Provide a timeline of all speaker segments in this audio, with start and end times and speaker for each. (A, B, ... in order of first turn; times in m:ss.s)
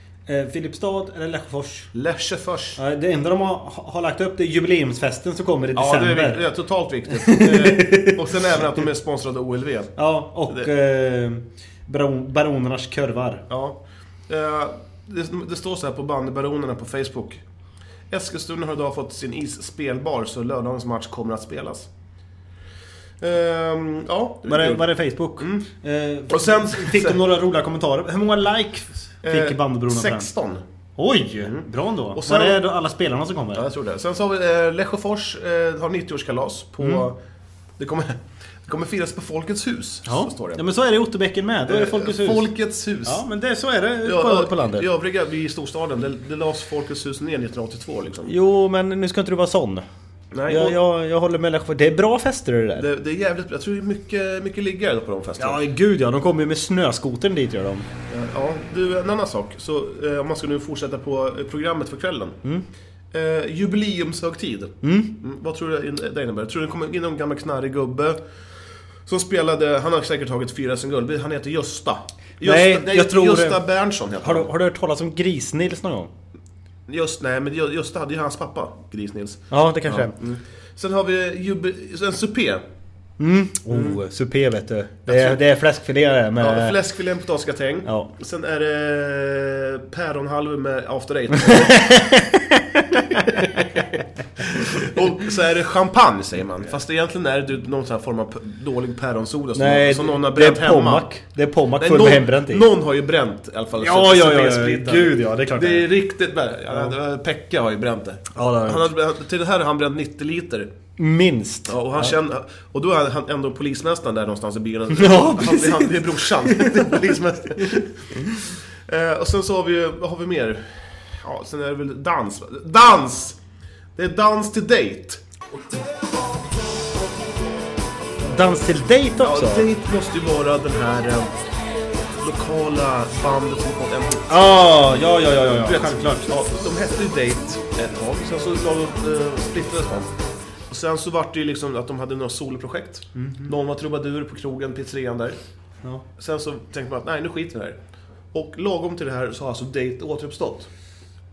0:00.3-0:01.9 A
0:01.9-0:02.8 B
0:02.8-0:06.4 A
0:05.7-0:09.9 B
0:07.1-0:08.2 A
0:10.0-0:13.4 A
0:13.5-0:17.4 B
0:18.1-0:21.9 B
0:23.2-0:25.6 B
0:24.5-0:30.3 A
0:26.3-0:27.2 B
0:29.2-0:30.6 B
0:31.0-0:33.6 A
0:31.4-0:32.6 B
0:33.5-0:37.2 B
0:36.8-0:37.0 A
0:37.8-0:40.6 B
0:40.0-0:42.5 A
0:41.7-0:43.2 B
0:43.0-0:44.9 A
0:44.0-0:48.3 B
0:48.3-0:49.8 A
0:50.3-0:50.8 B
0:50.5-0:52.9 A
0:52.8-0:55.6 B
0:55.4-0:57.8 A
0:58.1-1:02.4 B
1:03.1-1:08.2 B
1:04.8-1:05.1 A
1:09.0-1:14.5 B
1:12.4-1:13.6 A
1:14.2-1:16.1 A
1:16.9-1:22.6 B
1:19.5-1:20.1 A
1:23.2-1:26.8 A
1:23.7-1:24.0 B
1:25.0-1:25.4 B
1:26.4-1:31.8 B
1:27.8-1:28.1 A
1:31.3-1:33.8 A
1:33.4-1:33.8 B
1:34.4-1:41.1 B
1:39.6-1:42.6 A
1:41.8-1:50.7 B
1:43.8-1:45.9 A
1:48.3-1:48.9 A
1:51.0-1:52.1 A
1:51.7-1:57.9 B
1:54.9-1:58.3 A
1:58.9-2:03.4 B
2:04.0-2:05.2 B
2:08.2-2:09.7 A
2:09.2-2:11.3 B
2:12.2-2:14.5 B
2:14.3-2:16.3 A
2:15.4-2:20.1 B
2:20.7-2:25.4 B
2:23.1-2:23.5 A
2:26.2-2:27.8 B
2:28.3-2:30.7 B